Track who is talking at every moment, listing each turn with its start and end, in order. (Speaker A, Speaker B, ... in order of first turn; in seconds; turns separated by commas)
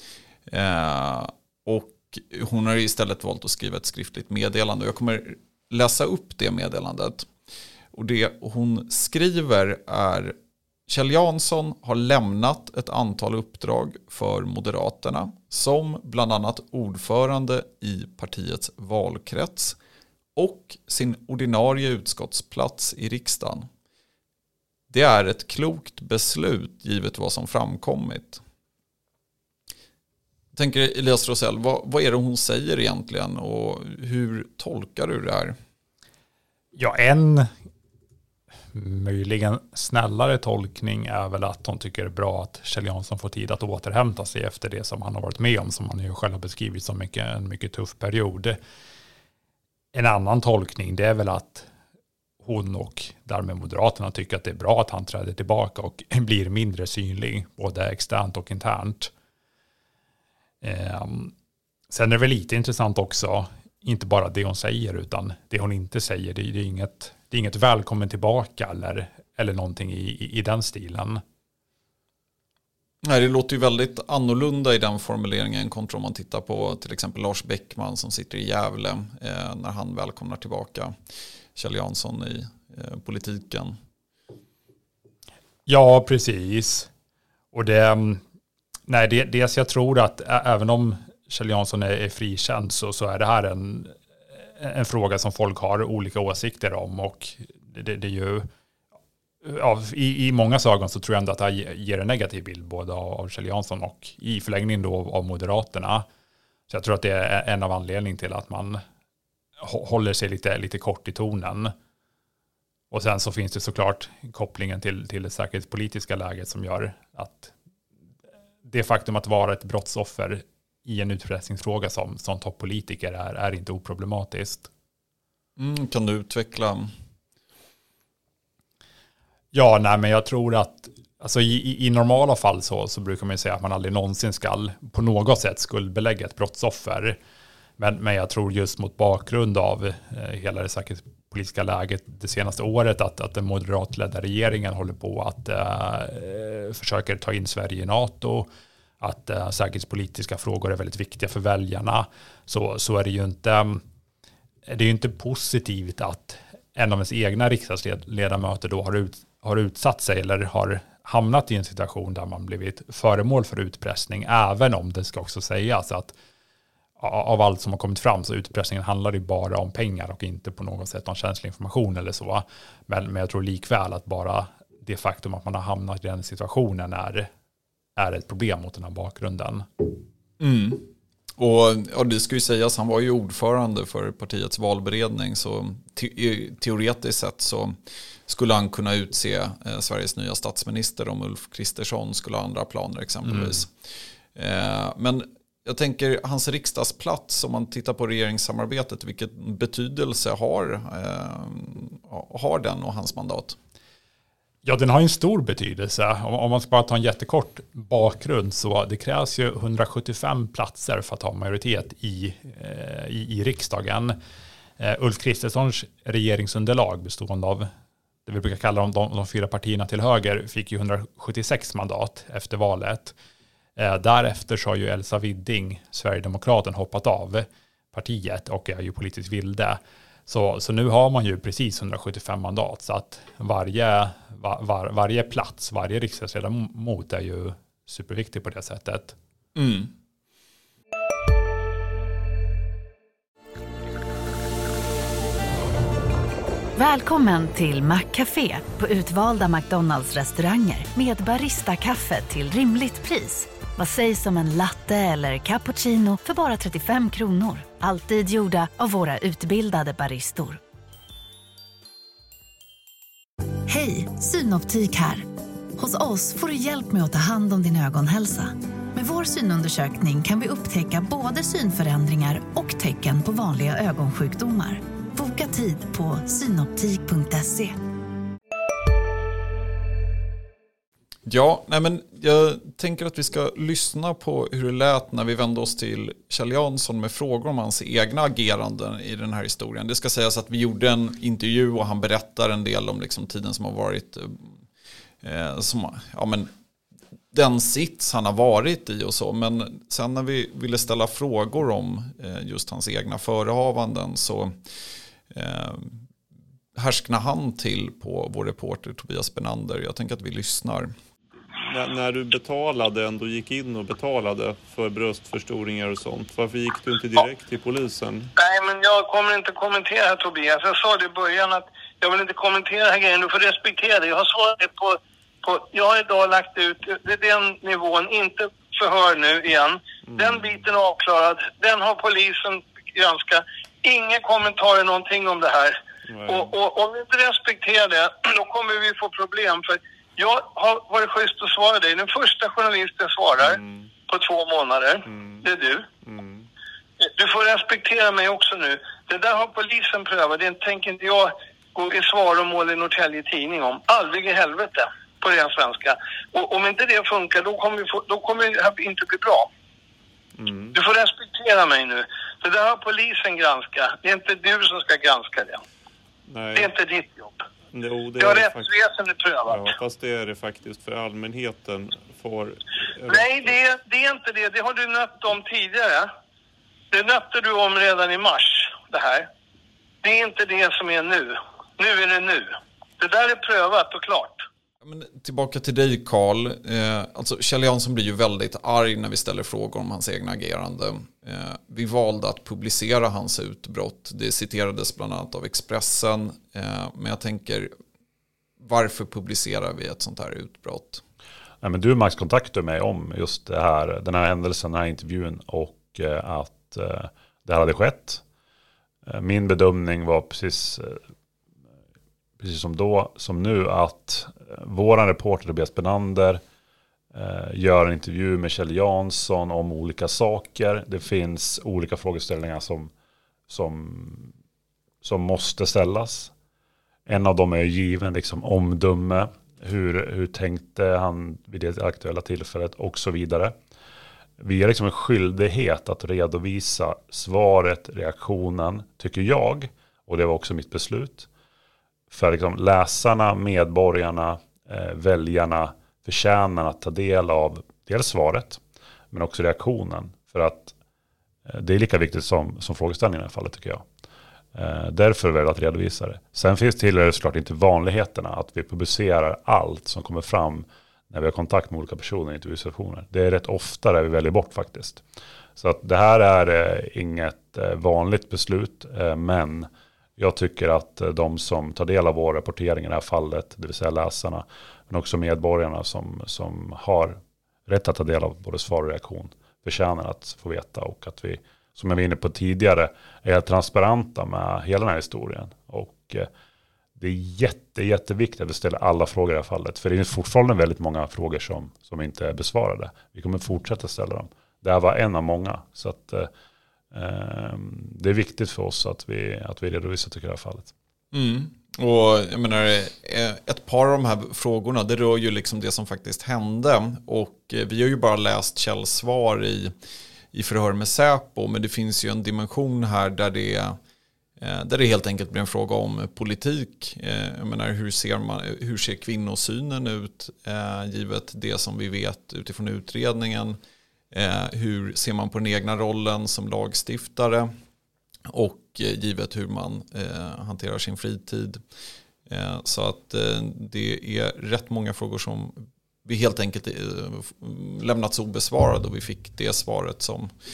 Speaker A: 0.5-7.3, Speaker A: 7.9-10.3, Speaker A: 10.9-19.8, Speaker A: 20.4-23.7, Speaker A: 24.9-28.4, Speaker A: 30.5-35.5, Speaker B: 36.7-37.5, Speaker B: 38.7-48.6, Speaker B: 49.9-51.7, Speaker B: 52.4-59.1, Speaker B: 60.6-61.3, Speaker B: 61.9-71.2, Speaker A: 73.0-80.9, Speaker A: 81.5-83.8, Speaker B: 85.7-86.9, Speaker B: 87.5-88.2, Speaker B: 88.9-98.5, Speaker B: 99.4-106.0, Speaker B: 106.7-108.8, Speaker B: 109.6-111.7, Speaker B: 112.9-117.5, Speaker B: 118.7-124.7, Speaker A: 125.6-126.9, Speaker B: 129.5-137.2, Speaker B: 137.8-148.5, Speaker B: 149.0-153.8, Speaker B: 154.7-166.1, Speaker B: 167.0-177.3, Speaker B: 178.0-179.7, Speaker A: 180.4-187.8, Speaker A: 188.3-193.7, Speaker B: 193.2-193.6, Speaker A: 194.3-203.6, Speaker B: 204.6-214.2, Speaker B: 214.8-217.7, Speaker B: 218.2-223.1, Speaker B: 223.8-239.2, Speaker A: 239.5-239.9, Speaker C: 246.8-260.6, Speaker C: 263.7-277.8, Speaker A: 281.2-294.5, Speaker A: 295.2-296.5, Speaker A: 297.3-304.5, Speaker A: 305.3-306.0, Speaker A: 306.8-310.9, Speaker D: 311.5-318.3, Speaker E: 318.4-345.9, Speaker D: 330.0-330.6, Speaker D: 336.1-336.5, Speaker D: 343.4-343.9, Speaker D: 345.1-345.5, Speaker D: 346.0-346.5, Speaker E: 347.0-359.5, Speaker D: 360.4-360.8, Speaker E: 360.7-365.6, Speaker D: 366.3-366.7, Speaker E: 366.5-367.4, Speaker D: 367.7-368.7, Speaker E: 368.2-369.7, Speaker D: 369.4-373.6, Speaker E: 373.1-376.1, Speaker E: 376.9-379.3, Speaker E: 380.0-384.4, Speaker A: 384.8-397.7, Speaker A: 398.6-401.0, Speaker F: 401.6-408.2, Speaker F: 409.1-411.0, Speaker F: 412.4-416.4, Speaker F: 417.1-422.9, Speaker F: 423.5-424.3, Speaker F: 425.0-426.3, Speaker F: 427.1-433.6, Speaker F: 434.4-441.3, Speaker F: 442.1-450.7, Speaker F: 451.4-453.9, Speaker F: 454.5-465.0, Speaker F: 465.6-486.3, Speaker F: 487.0-496.3, Speaker F: 496.9-500.7, Speaker A: 501.1-509.7, Speaker A: 510.3-513.8, Speaker A: 514.4-523.6, Speaker A: 524.1-527.5, Speaker A: 528.2-531.6, Speaker A: 532.3-540.3